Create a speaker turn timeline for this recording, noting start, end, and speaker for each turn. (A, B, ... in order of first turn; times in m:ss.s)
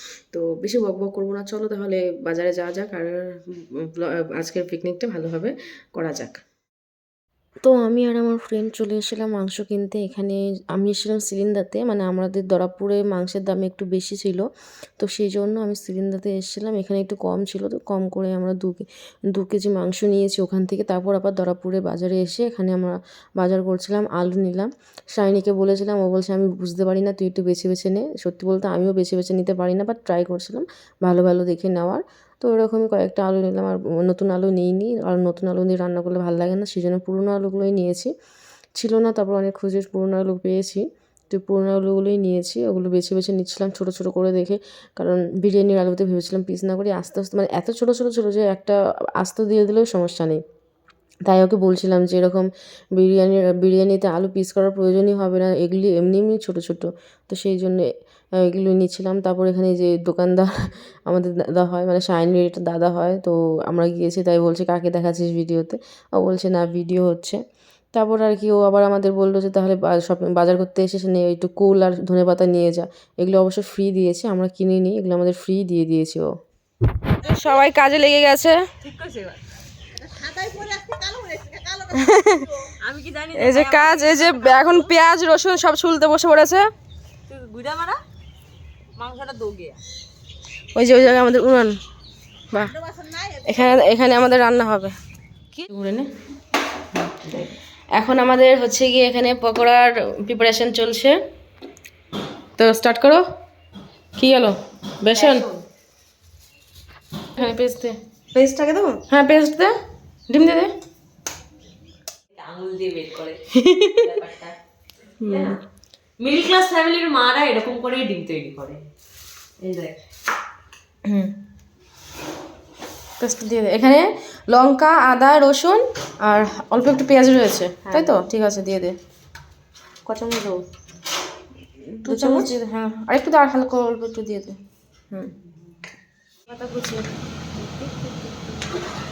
0:00.3-0:06.4 A
0:07.6-0:14.4 A
0:15.0-0:38.1 A
0:38.8-0:50.4 A
0:51.3-0:57.9 A
0:58.4-1:00.5 A
1:01.1-1:07.4 A
1:07.9-1:16.3 A
1:17.2-1:18.6 A
1:18.8-1:19.4 B
1:21.9-1:22.5 A
1:22.8-1:24.9 B
1:23.3-1:26.6 A
1:27.3-1:28.0 B
1:29.0-1:29.8 B
1:30.7-1:31.7 A
1:33.4-1:34.9 A
1:35.6-1:36.1 A
1:37.3-1:41.2 A
1:42.6-1:43.2 A
1:44.2-1:45.5 A
1:45.1-1:45.6 B
1:47.4-1:48.0 A
1:48.3-1:49.0 B
1:49.1-1:49.7 A
1:50.3-1:50.7 A
1:52.3-1:53.4 B
1:53.6-1:54.0 A
1:54.0-1:54.6 B
1:55.2-1:55.5 A
1:55.3-1:55.6 B
1:56.2-1:58.8 B
1:59.6-2:00.0 B
2:03.2-2:09.0 A
2:10.1-2:10.6 A
2:12.0-2:14.6 A
2:16.5-2:17.0 A
2:17.6-2:18.3 A